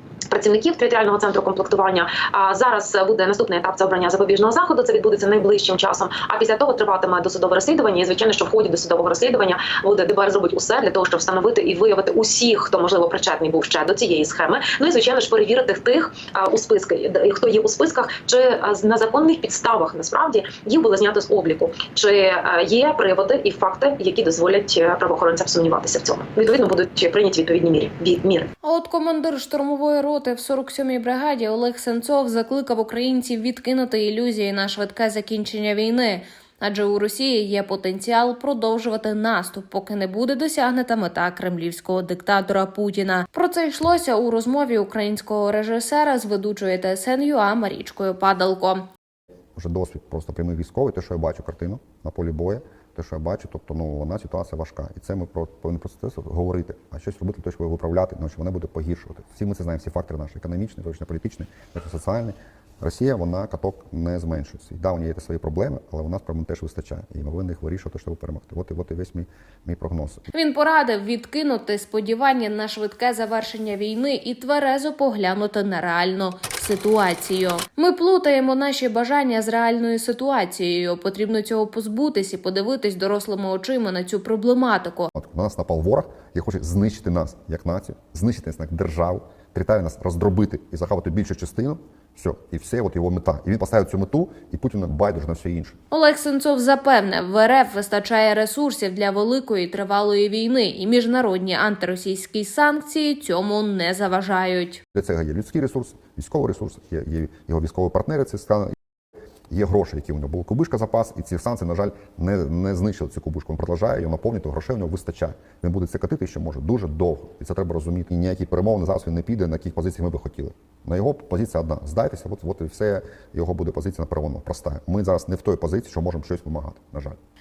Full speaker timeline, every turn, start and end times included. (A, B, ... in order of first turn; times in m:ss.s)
0:00.3-0:28.5 A
0:28.6-0:48.9 B
0:49.6-1:10.2 C
1:10.3-1:25.1 B
1:25.1-1:35.8 C
1:35.9-1:44.8 B
1:44.9-1:48.7 C
1:49.5-2:07.2 C